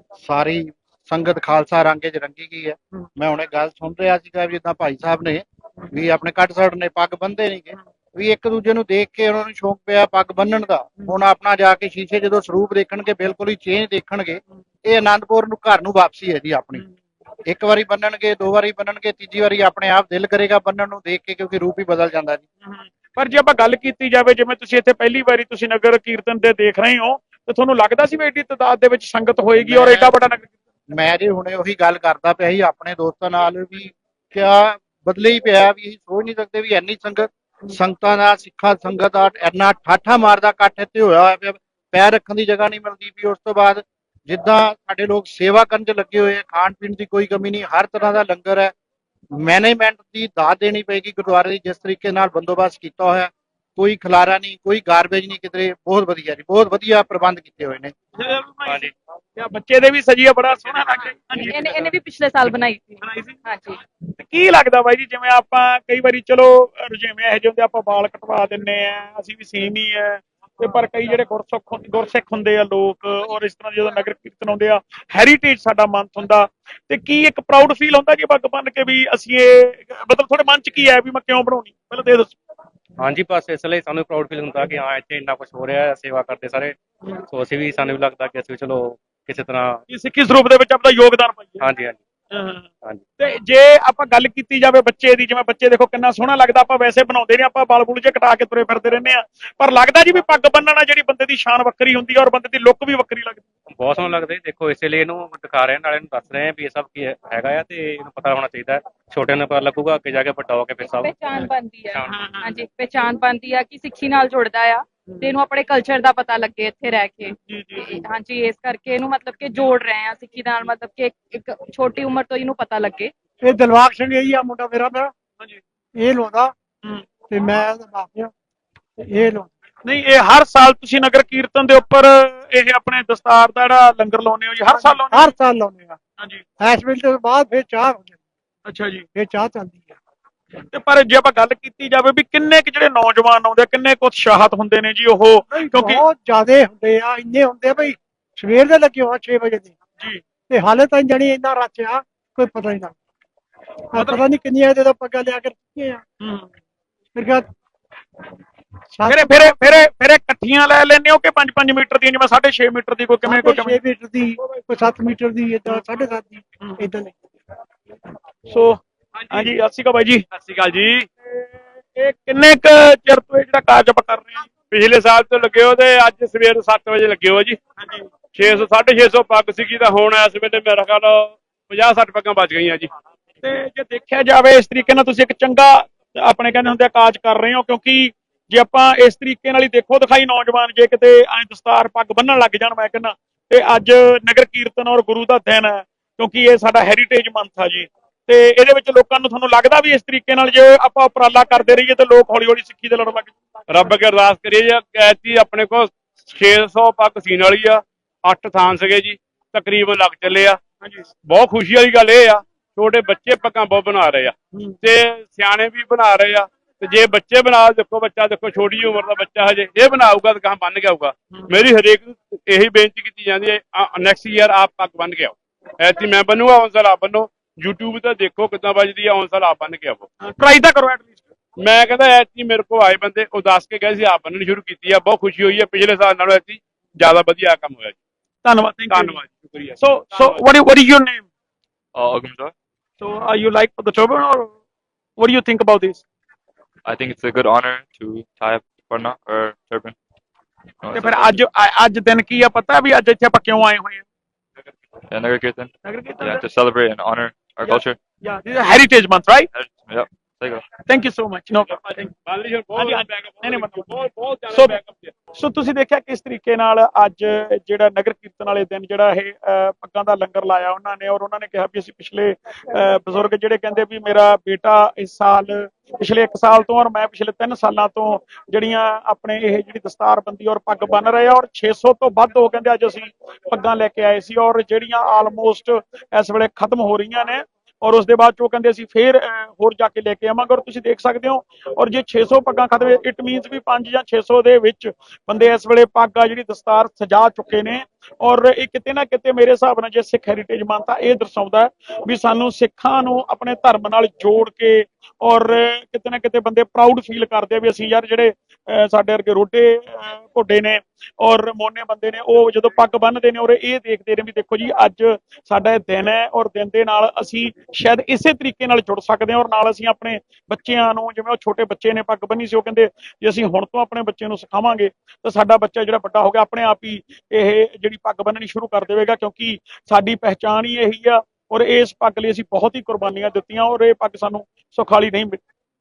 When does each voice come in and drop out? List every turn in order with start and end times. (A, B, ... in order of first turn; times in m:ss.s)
0:00.2-0:16.8 A
0:17.5-0:22.4 A
0:22.6-0:30.5 B
0:29.6-0:30.1 A
0:30.9-0:48.7 A
0:49.3-0:57.9 A
0:58.2-1:01.9 B
1:00.9-1:03.8 C
1:03.0-1:03.4 B
1:04.2-1:22.4 B
1:23.0-1:26.8 D
1:27.3-1:29.8 D
1:29.9-1:31.6 B
1:31.6-1:32.0 D
1:32.3-1:32.6 B
1:33.2-1:43.4 B
1:43.7-1:51.1 D
1:50.8-2:03.1 C
1:51.9-1:52.2 D
1:52.1-1:52.5 B
1:57.5-1:58.0 B
2:03.4-2:05.1 E
2:06.0-2:06.5 E
2:07.3-2:08.3 E
2:09.0-2:09.5 E
2:09.8-2:15.3 B
2:14.7-2:16.0 E
2:16.6-2:18.2 E
2:18.6-2:19.0 B
2:19.1-2:19.9 E
2:20.7-2:26.0 B
2:25.5-2:29.7 E
2:30.5-2:32.9 E
2:33.9-2:36.0 E
2:34.0-2:34.2 B
2:36.2-2:36.5 B
2:37.1-2:37.5 E
2:38.9-2:39.5 E
2:39.0-2:43.8 B
2:43.2-2:47.1 E
2:46.6-2:46.9 B
2:48.5-2:48.8 B
2:49.2-2:49.5 F
2:49.3-2:50.2 B
2:50.3-2:51.1 F
2:51.3-2:54.5 B
2:54.7-2:57.6 F
2:57.8-2:58.1 B
2:58.3-3:02.9 F
3:03.4-3:23.3 B
3:23.7-3:30.6 F
3:31.2-3:50.0 F
3:50.2-3:51.2 B
3:51.6-3:58.0 F
3:58.4-3:59.2 B
3:58.9-4:00.4 F
3:59.8-4:01.3 B
4:01.9-4:02.5 G
4:03.0-4:04.5 B
4:05.2-4:06.0 B
4:06.8-4:09.9 G
4:10.8-4:11.4 G
4:10.9-4:14.0 B
4:15.1-4:18.0 G
4:15.8-4:16.4 B
4:17.6-4:19.5 B
4:19.5-4:20.6 G
4:20.8-4:22.1 B
4:22.2-4:25.1 F
4:22.8-4:24.8 B
4:25.3-5:35.4 B